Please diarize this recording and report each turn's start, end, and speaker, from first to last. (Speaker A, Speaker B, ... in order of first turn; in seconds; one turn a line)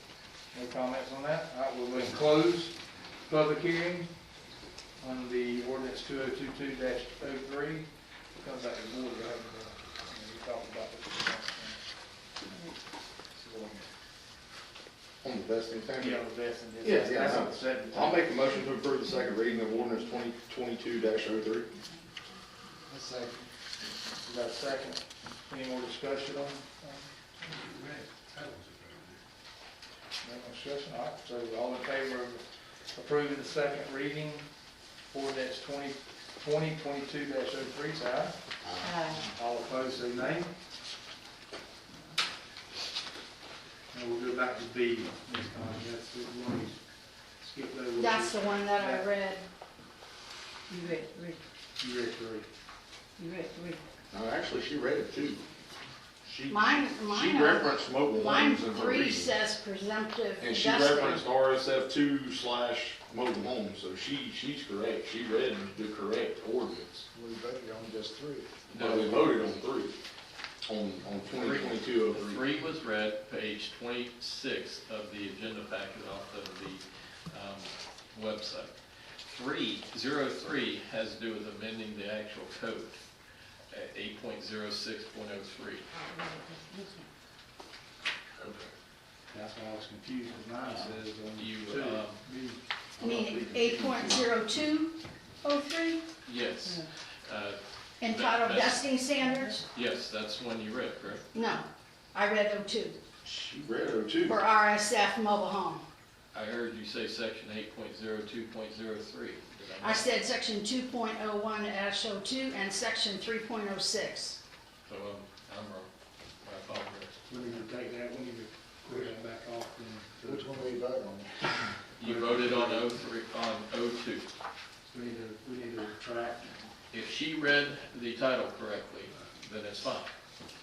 Speaker A: 0.5-4.1
Speaker A: 5.0-11.8
Speaker B: 12.5-12.7
Speaker A: 13.4-13.8
Speaker C: 15.2-16.2
Speaker A: 16.0-18.3
Speaker C: 16.8-21.7
Speaker D: 22.9-23.5
Speaker A: 24.2-27.1
Speaker A: 30.2-34.5
Speaker A: 35.1-38.4
Speaker B: 38.8-39.2
Speaker A: 39.2-40.5
Speaker A: 43.9-46.8
Speaker A: 47.4-49.1
Speaker E: 47.9-49.4
Speaker B: 50.7-51.4
Speaker A: 51.8-52.5
Speaker B: 53.2-53.8
Speaker C: 54.1-55.4
Speaker C: 56.2-59.3
Speaker E: 56.5-61.2
Speaker C: 60.4-67.0
Speaker D: 67.1-68.5
Speaker C: 68.7-70.0
Speaker F: 68.7-69.4
Speaker C: 70.7-72.5
Speaker F: 71.3-78.7
Speaker F: 79.3-83.0
Speaker F: 83.7-85.9
Speaker B: 86.1-87.1
Speaker C: 88.4-88.7
Speaker A: 89.3-94.3
Speaker F: 91.3-92.2
Speaker E: 93.0-96.0
Speaker F: 96.2-99.0
Speaker E: 98.0-99.6
Speaker F: 99.7-101.2
Speaker E: 101.3-103.0
Speaker C: 103.2-104.4
Speaker E: 104.2-105.8
Speaker F: 106.3-110.1
Speaker E: 109.8-114.4
Speaker F: 114.8-115.9
Speaker F: 116.4-117.2
Speaker A: 117.3-120.7
Speaker D: 120.2-121.3
Speaker F: 122.0-124.3
Speaker A: 122.0-122.8
Speaker A: 124.9-126.6
Speaker F: 126.9-130.1